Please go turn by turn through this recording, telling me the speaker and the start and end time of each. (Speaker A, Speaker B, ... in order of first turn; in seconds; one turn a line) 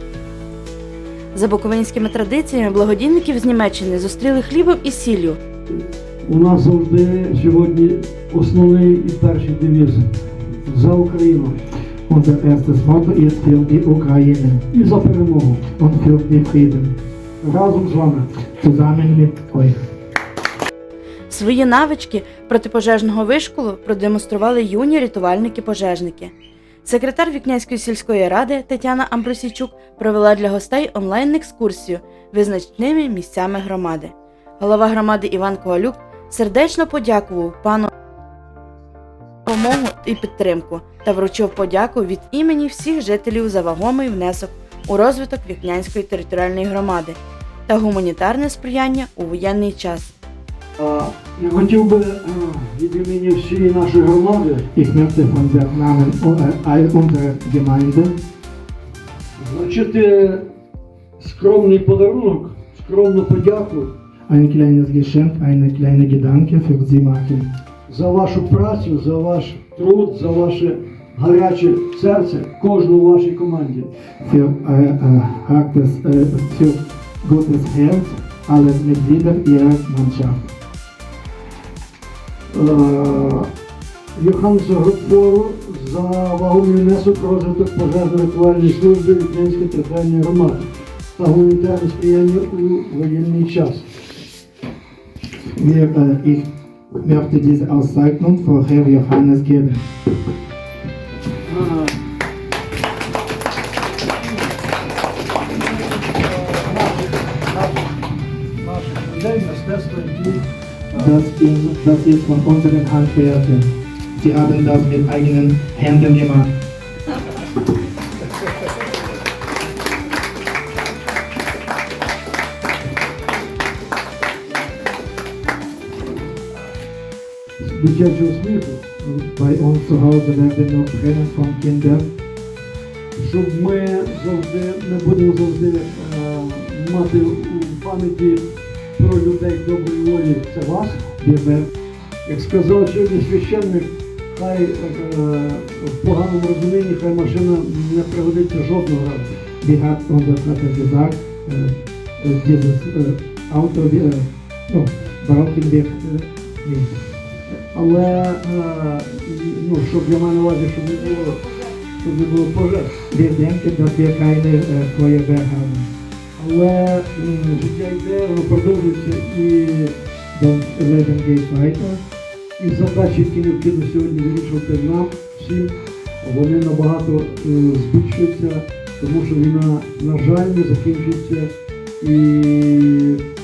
Speaker A: 1.3-5.4
Speaker B: 5.7-10.1
Speaker B: 10.7-11.6
Speaker C: 12.1-14.7
Speaker B: 14.7-15.7
Speaker C: 15.7-16.9
Speaker B: 17.4-18.3
Speaker C: 18.6-19.8
Speaker A: 21.3-26.3
Speaker A: 26.8-37.9
Speaker A: 39.5-50.1
Speaker B: 50.8-54.7
Speaker C: 54.7-58.1
Speaker B: 59.4-60.5
Speaker B: 61.2-63.9
Speaker C: 64.3-67.5
Speaker B: 67.9-73.9
Speaker C: 74.2-80.4
Speaker B: 82.5-83.5
Speaker B: 84.2-90.7
Speaker B: 91.2-93.9
Speaker C: 95.5-96.5
Speaker C: 97.0-99.8
Speaker B: 101.5-102.0
Speaker B: 105.6-108.0
Speaker B: 108.6-110.4
Speaker C: 110.9-116.5
Speaker B: 127.6-128.9
Speaker C: 129.0-132.1
Speaker B: 133.2-141.1
Speaker C: 141.2-141.7
Speaker B: 142.2-149.4
Speaker C: 149.6-157.1
Speaker B: 157.7-163.0
Speaker C: 163.1-165.9
Speaker B: 166.4-169.9
Speaker C: 170.3-172.0
Speaker B: 172.6-183.2